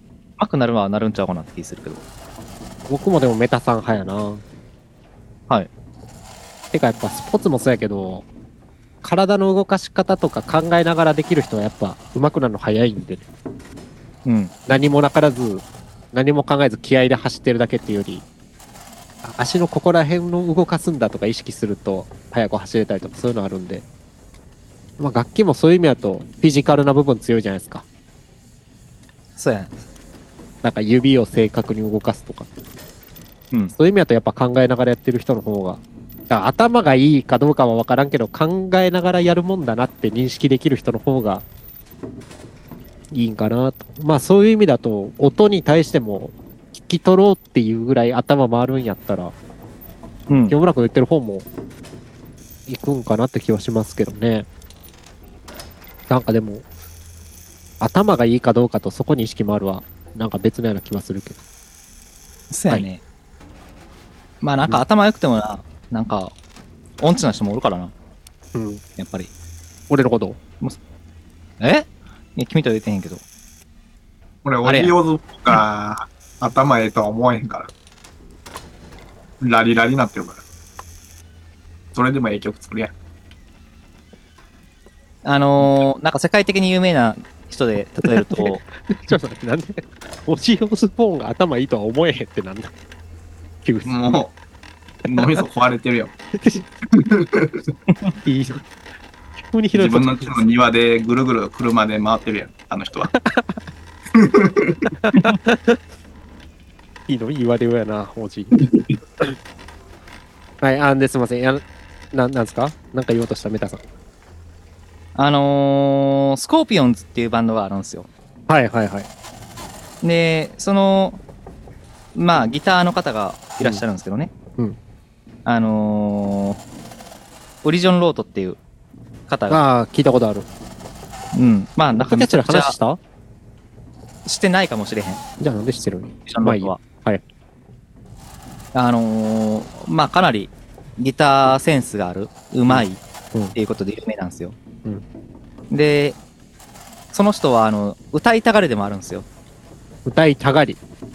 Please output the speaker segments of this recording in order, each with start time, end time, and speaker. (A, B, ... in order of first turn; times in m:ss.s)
0:00.4-0:02.0 A
0:02.9-0:04.4 B
0:06.7-0:08.3 B
0:09.0-0:13.3 B
0:14.2-0:14.5 A
0:14.7-0:18.2 B
0:19.2-0:23.8 B
0:25.0-0:27.8 B
0:29.4-0:29.8 A
0:30.6-0:32.5 B
0:33.8-0:41.5 B
0:43.1-0:49.4 B
0:50.3-0:50.6 A
0:50.5-0:51.5 B
0:52.7-0:54.5 B
0:56.1-0:56.7 B
0:57.8-1:01.4 B
1:02.5-1:03.0 A
1:04.4-1:06.3 A
1:07.0-1:07.9 A
1:08.5-1:08.8 B
1:09.0-1:09.3 A
1:09.9-1:10.4 B
1:11.6-1:13.2 A
1:14.4-1:17.7 C
1:14.6-1:14.9 A
1:19.4-1:20.4 C
1:22.0-1:22.9 C
1:25.2-1:28.6 A
1:28.0-1:32.7 B
1:33.6-1:33.9 B
1:33.8-1:34.3 C
1:35.0-1:36.1 C
1:36.4-1:36.7 B
1:36.9-1:37.6 C
1:38.2-1:38.6 B
1:39.4-1:40.5 B
1:39.8-1:43.1 C
1:43.2-1:43.6 B
1:44.2-1:45.3 C
1:45.0-1:45.8 B
1:47.1-1:48.6 B
1:48.6-1:48.9 C
1:50.6-1:53.8 B
1:55.2-1:58.1 A
1:58.5-1:59.1 B
2:00.0-2:01.2 A
2:02.2-2:04.3 A
2:05.4-2:06.6 A
2:07.6-2:08.6 A
2:09.3-2:09.6 A
2:09.5-2:10.5 B
2:11.3-2:12.8 A
2:12.0-2:13.0 B
2:14.2-2:15.2 A
2:15.4-2:17.2 B
2:16.3-2:16.8 A
2:18.7-2:23.0 A
2:22.7-2:23.6 B
2:23.6-2:24.6 A
2:25.7-2:26.2 A
2:27.1-2:29.3 A
2:30.1-2:30.8 B